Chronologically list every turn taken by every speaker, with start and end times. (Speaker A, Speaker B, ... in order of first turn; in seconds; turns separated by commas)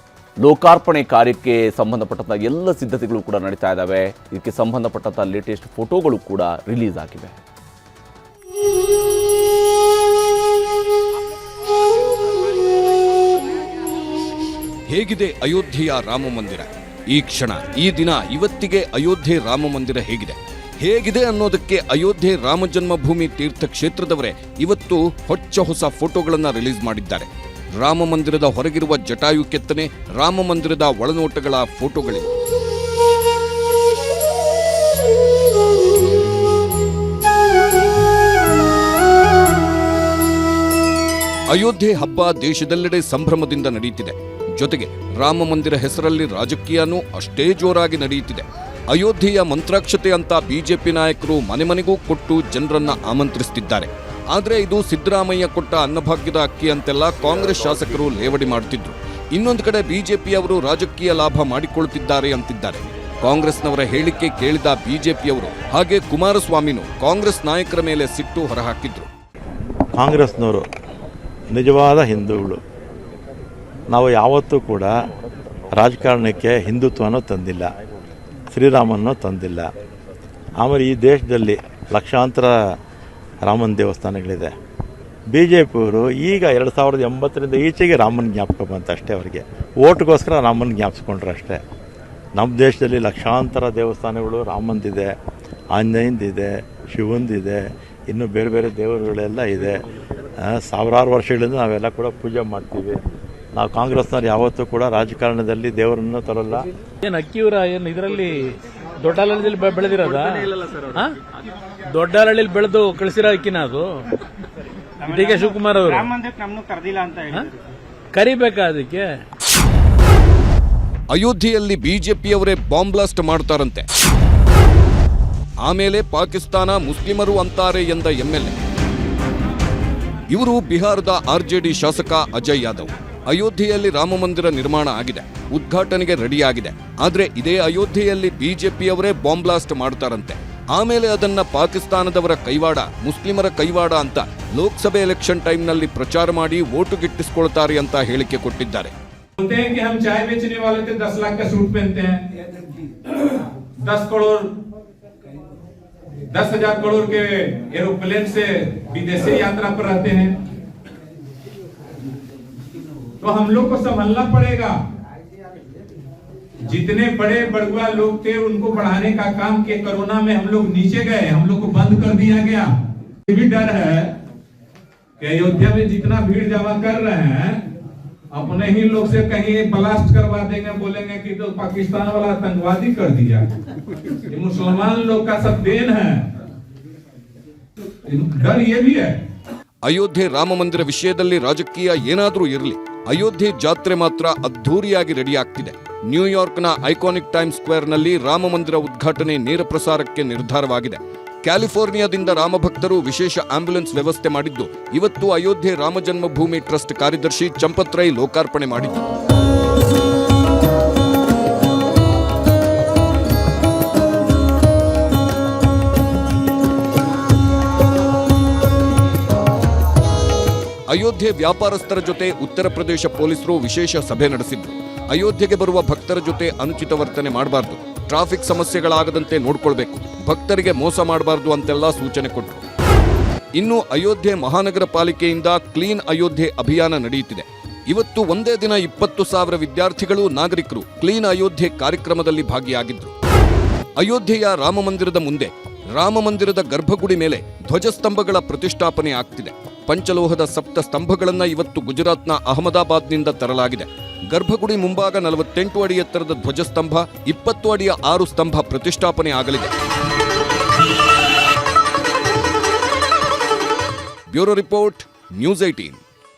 Speaker A: 0.4-7.4, Speaker B: 14.9-27.3, Speaker B: 27.8-32.3, Speaker B: 41.5-69.1, Speaker C: 70.0-70.6, Speaker C: 71.5-72.6, Speaker C: 73.9-74.9, Speaker C: 75.7-77.7, Speaker C: 78.5-79.7, Speaker C: 80.6-82.5, Speaker C: 83.4-84.5, Speaker C: 85.3-91.6, Speaker C: 92.3-95.1, Speaker C: 95.7-99.8, Speaker C: 100.4-103.0, Speaker C: 103.5-106.7, Speaker D: 107.0-111.2, Speaker E: 110.5-110.8, Speaker D: 111.9-114.0, Speaker E: 115.0-117.5, Speaker D: 115.1-116.1, Speaker D: 118.1-119.1, Speaker B: 121.1-123.8, Speaker B: 125.6-128.6, Speaker B: 130.3-148.9, Speaker F: 149.4-152.1, Speaker F: 153.8-154.5, Speaker F: 156.3-160.3, Speaker F: 163.2-164.7, Speaker F: 166.7-172.7, Speaker F: 173.3-174.1, Speaker F: 175.2-177.6, Speaker F: 178.3-183.4, Speaker F: 184.3-186.2, Speaker F: 188.1-189.1, Speaker B: 189.8-209.0, Speaker B: 220.9-232.6, Speaker B: 233.6-243.1, Speaker B: 244.0-259.7, Speaker B: 264.3-266.0